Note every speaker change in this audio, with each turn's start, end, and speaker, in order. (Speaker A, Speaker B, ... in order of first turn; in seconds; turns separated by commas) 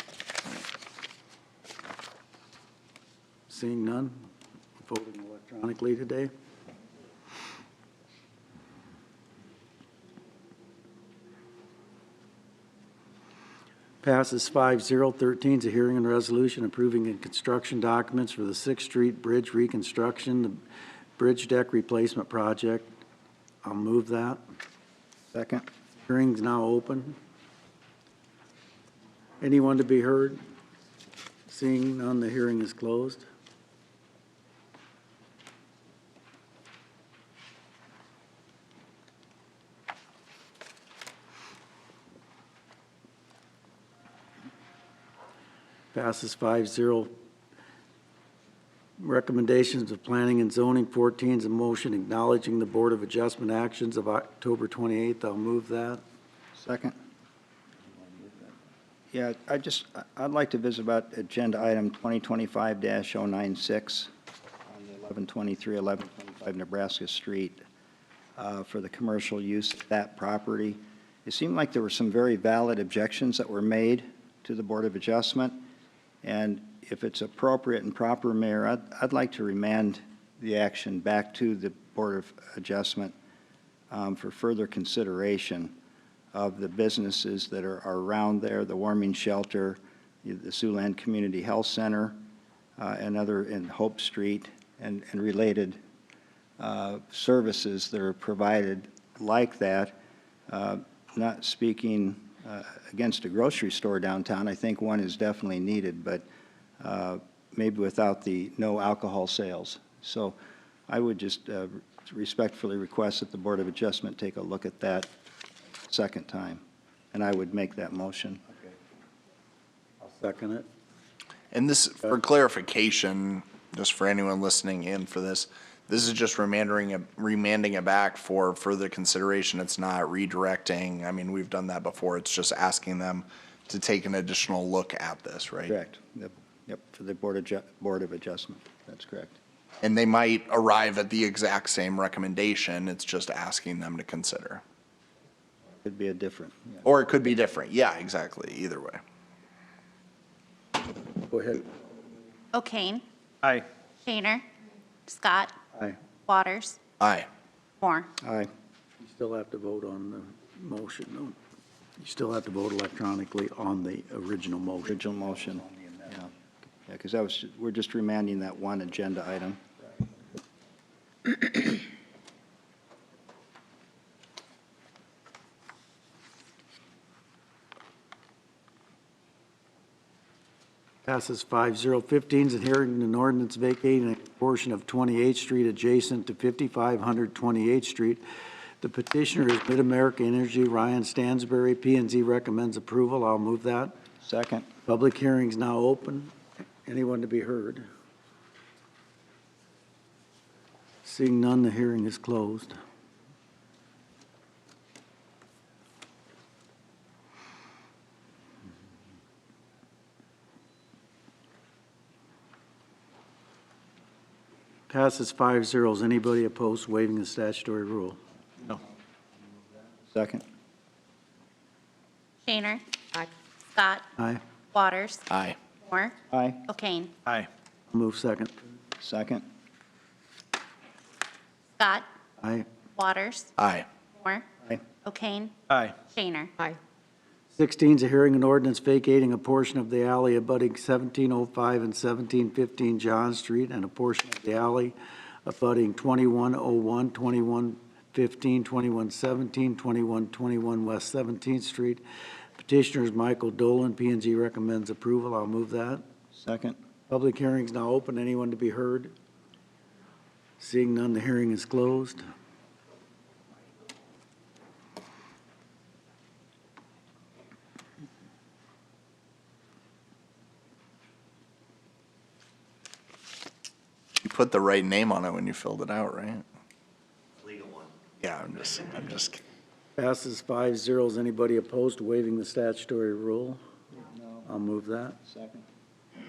Speaker A: 3.5-4.3, Speaker A: 4.8-6.3, Speaker A: 14.0-20.6, Speaker A: 21.2-22.9, Speaker A: 23.6-24.4, Speaker B: 25.3-25.6, Speaker A: 26.1-27.2, Speaker A: 29.4-30.4, Speaker A: 31.5-33.3, Speaker A: 45.9-47.1, Speaker A: 49.0-56.0, Speaker B: 56.5-57.0, Speaker B: 59.1-64.1, Speaker B: 64.7-67.6, Speaker B: 68.3-75.6, Speaker B: 76.2-83.1, Speaker B: 83.9-85.8, Speaker B: 86.3-92.2, Speaker B: 92.8-95.8, Speaker B: 96.6-100.0, Speaker B: 100.5-106.2, Speaker B: 106.8-110.4, Speaker B: 110.9-115.1, Speaker B: 115.9-116.6, Speaker B: 117.1-118.4, Speaker A: 120.0-120.7, Speaker C: 121.5-135.7, Speaker B: 135.7-139.3, Speaker C: 139.8-144.6, Speaker B: 145.8-146.8, Speaker C: 146.8-149.0, Speaker A: 151.3-151.7, Speaker D: 152.5-153.0, Speaker D: 154.1-154.4, Speaker D: 155.1-155.5, Speaker D: 156.3-156.8, Speaker C: 157.0-157.3, Speaker D: 157.8-158.1, Speaker B: 158.2-158.5, Speaker A: 159.0-161.4, Speaker A: 162.0-165.0, Speaker B: 164.8-166.3, Speaker A: 165.7-166.1, Speaker B: 166.9-169.6, Speaker A: 181.0-188.2, Speaker A: 188.8-193.9, Speaker B: 194.2-194.7, Speaker A: 194.8-196.3, Speaker A: 196.8-197.8, Speaker A: 201.0-202.8, Speaker A: 214.9-218.7, Speaker B: 220.1-220.4, Speaker D: 222.4-222.8, Speaker D: 223.7-224.1, Speaker A: 224.2-224.4, Speaker D: 224.7-225.3, Speaker C: 225.3-225.6, Speaker D: 225.8-226.2, Speaker B: 226.3-226.6, Speaker D: 226.7-227.1, Speaker A: 227.9-228.5, Speaker B: 229.0-229.4, Speaker D: 231.8-232.1, Speaker A: 232.4-232.7, Speaker D: 232.9-233.5, Speaker C: 233.6-233.8, Speaker D: 234.2-234.5, Speaker D: 235.0-235.6, Speaker C: 235.7-235.9, Speaker D: 236.1-236.5, Speaker A: 237.5-252.0, Speaker A: 252.6-256.0, Speaker B: 256.3-256.8, Speaker A: 257.1-259.1, Speaker A: 260.6-262.3, Speaker C: 274.2-276.4, Speaker C: 278.2-279.4, Speaker A: 280.0-283.6, Speaker B: 284.1-284.5, Speaker A: 284.4-285.2, Speaker B: 285.2-285.6